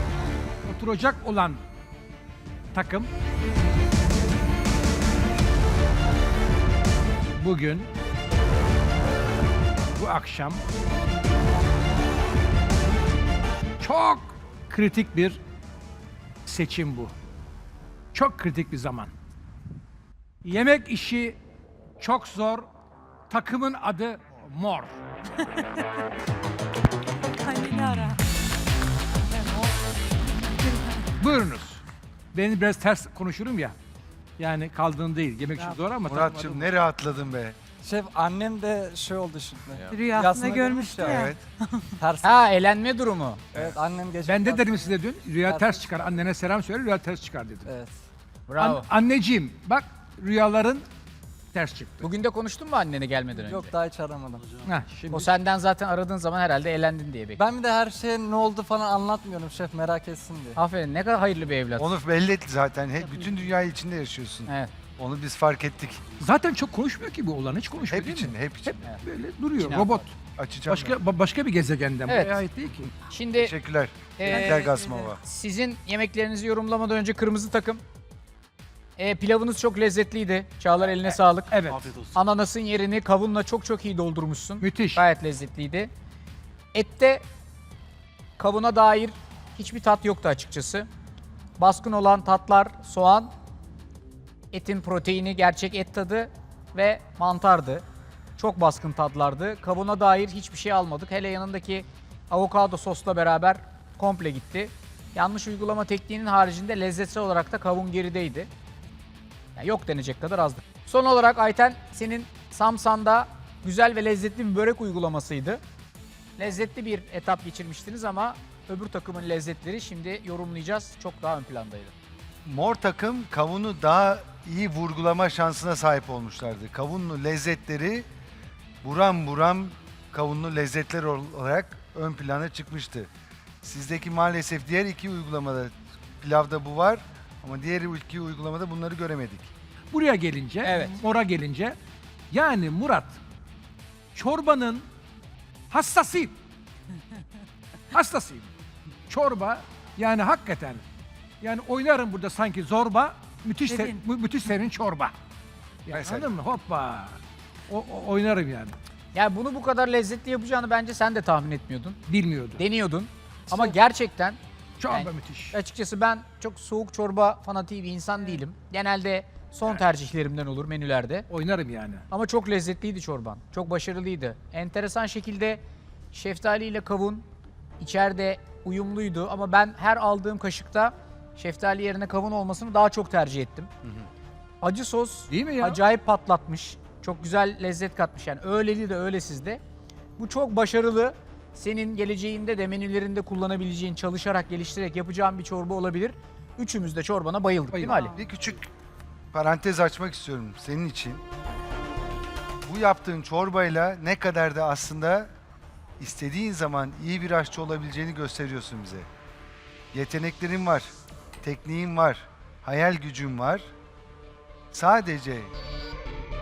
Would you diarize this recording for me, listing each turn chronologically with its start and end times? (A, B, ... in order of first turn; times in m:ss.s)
0:00.6-0:01.6 A
0:02.7-0:03.1 A
0:07.3-0:07.9 A
0:09.9-0:10.6 A
0:13.8-0:15.4 A
0:16.4-0:17.1 A
0:18.1-0:19.1 A
0:20.4-0:21.4 A
0:22.0-0:22.7 A
0:23.3-0:25.0 A
0:27.4-0:28.2 B
0:29.2-0:29.7 B
0:30.6-0:31.0 B
0:31.2-0:31.8 A
0:32.3-0:33.8 A
0:34.4-0:36.5 A
0:36.1-0:37.6 C
0:37.8-0:41.3 D
0:39.9-0:41.9 B
0:41.0-0:41.4 C
0:42.0-0:42.4 D
0:42.2-0:43.6 E
0:43.5-0:44.9 D
0:44.2-0:47.7 A
0:45.4-0:45.9 D
0:47.7-0:48.0 D
0:48.5-0:48.9 E
0:48.6-0:50.9 A
0:51.5-0:52.1 A
0:52.0-0:53.7 E
0:53.4-0:54.6 D
0:54.6-0:55.3 A
0:55.1-0:57.4 E
0:57.4-1:00.6 D
1:00.6-1:01.9 E
1:01.8-1:06.0 C
1:04.5-1:04.7 E
1:06.2-1:12.9 A
1:07.9-1:08.9 C
1:09.6-1:10.0 E
1:10.4-1:11.0 C
1:12.1-1:12.4 E
1:13.1-1:13.6 E
1:13.3-1:15.2 C
1:14.2-1:17.8 E
1:14.3-1:15.1 B
1:19.0-1:25.9 E
1:21.1-1:22.0 A
1:24.6-1:25.0 A
1:26.7-1:27.2 E
1:28.4-1:30.9 E
1:31.6-1:33.3 E
1:34.5-1:37.8 E
1:38.4-1:48.5 E
1:49.6-1:55.6 E
1:56.4-2:01.9 E
2:02.4-2:08.1 C
2:08.8-2:13.1 C
2:13.6-2:19.5 C
2:19.9-2:21.8 A
2:20.6-2:21.0 E
2:22.3-2:23.2 A
2:24.1-2:24.9 A
2:25.7-2:26.4 A
2:27.9-2:28.5 A
2:29.1-2:30.8 A
2:31.4-2:35.1 A
2:33.7-2:34.0 B
2:35.9-2:37.2 A
2:35.9-2:36.3 C
2:37.7-2:38.8 A
2:39.1-2:42.0 E
2:42.1-2:42.6 A
2:42.6-2:44.4 E
2:44.8-2:45.6 A
2:44.9-2:51.3 E
2:51.3-2:52.1 A
2:52.1-2:55.6 E
2:56.1-2:57.2 E
2:57.8-3:03.7 E
3:04.6-3:09.6 E
3:05.3-3:05.8 A
3:10.2-3:18.2 E
3:17.8-3:18.2 B
3:18.1-3:18.7 C
3:19.3-3:21.2 C
3:22.7-3:25.3 C
3:26.0-3:29.1 C
3:29.9-3:33.7 C
3:34.7-3:35.5 C